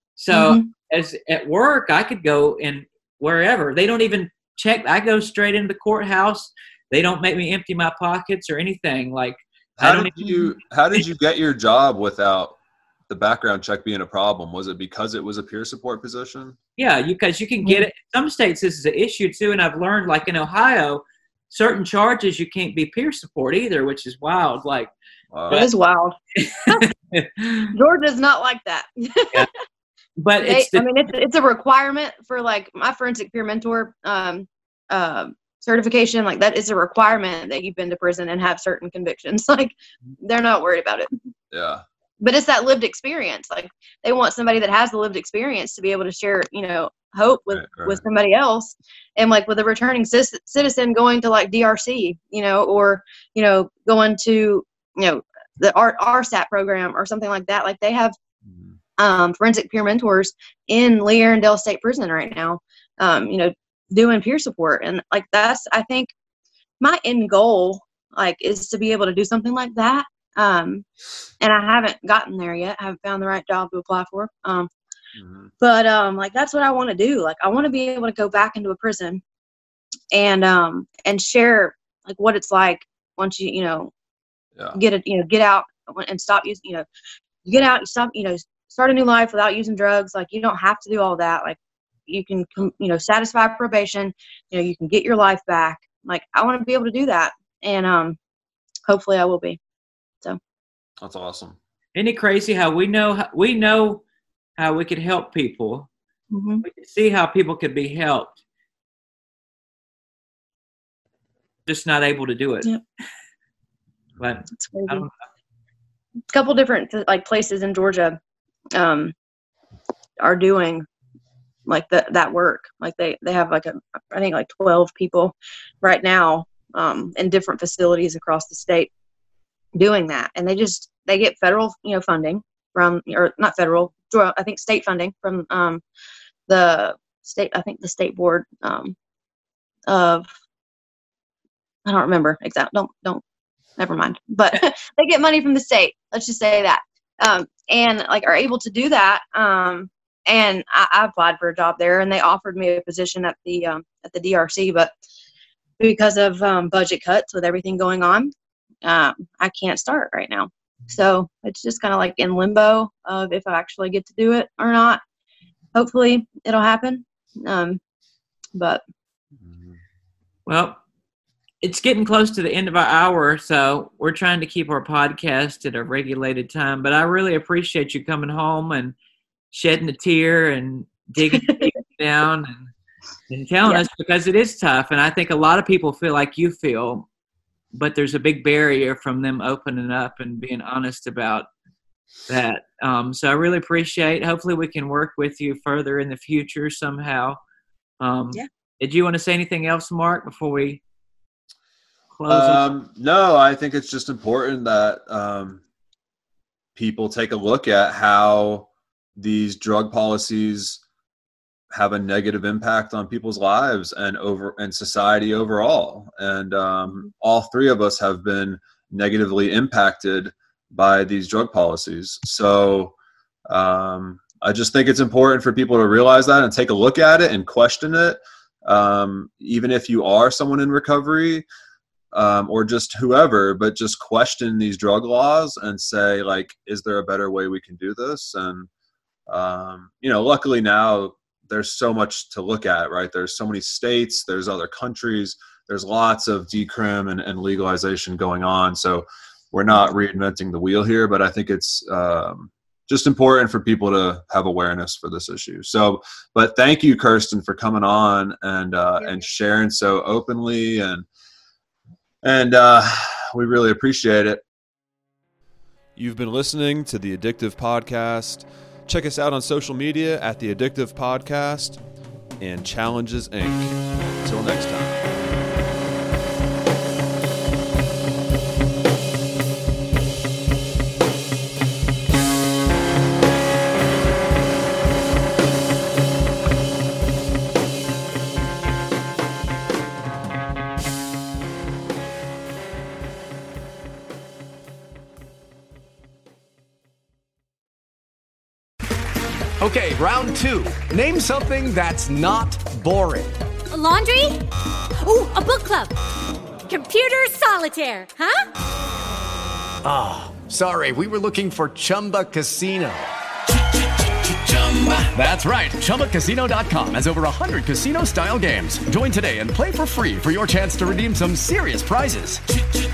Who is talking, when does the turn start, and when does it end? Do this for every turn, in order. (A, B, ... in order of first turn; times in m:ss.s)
0:00.2-0:10.1 A
0:00.3-0:00.7 B
0:09.8-0:12.6 C
0:10.2-0:10.5 B
0:13.1-0:16.6 C
0:16.8-0:24.9 A
0:25.3-0:25.6 C
0:25.5-0:26.2 B
0:26.4-0:27.7 A
0:27.7-0:29.4 B
0:30.2-0:30.8 A
0:30.4-0:41.1 B
0:41.5-0:41.8 C
0:42.2-0:58.1 B
0:47.5-0:48.0 C
0:58.5-0:58.7 C
0:59.0-1:06.1 B
1:06.8-1:10.8 B
1:11.4-1:14.7 B
1:15.2-1:15.5 C
1:15.6-1:19.2 B
1:20.1-1:23.9 B
1:24.7-1:26.8 B
1:27.4-1:38.2 B
1:38.9-1:39.6 B
1:41.0-1:41.6 C
1:41.9-1:44.0 A
1:44.6-1:45.9 A
1:46.3-1:46.6 B
1:46.6-1:48.4 A
1:51.7-1:52.7 A
1:54.2-1:55.1 A
1:54.5-1:55.0 B
1:56.3-1:58.2 B
1:58.7-1:59.1 B
2:00.2-2:00.8 B
2:01.7-2:08.9 B
2:09.8-2:15.8 B
2:16.5-2:18.9 B
2:19.9-2:20.3 B
2:21.8-2:23.2 B
2:23.8-2:34.9 B
2:35.8-2:38.3 B
2:38.8-2:45.0 B
2:45.7-2:47.8 B
2:48.6-2:48.8 B
2:49.4-2:49.8 C
2:50.5-2:50.8 A
2:51.6-2:58.9 A
2:59.5-3:02.7 A
3:01.2-3:01.7 B
3:03.3-3:07.0 A
3:07.7-3:11.5 A
3:12.3-3:17.4 A
3:18.0-3:20.8 A
3:22.2-3:22.7 A
3:22.3-3:25.6 C
3:26.7-3:30.8 C
3:31.7-3:42.9 C
3:43.5-3:51.4 C
3:52.1-3:58.7 C
3:59.3-4:21.0 C
4:22.2-4:24.4 C
4:26.0-4:31.8 C
4:32.4-4:35.0 C
4:59.6-5:03.3 D
5:03.7-5:04.4 E
5:05.0-5:05.9 E
5:06.6-5:08.4 E
5:09.8-5:13.1 D
5:13.7-5:22.4 D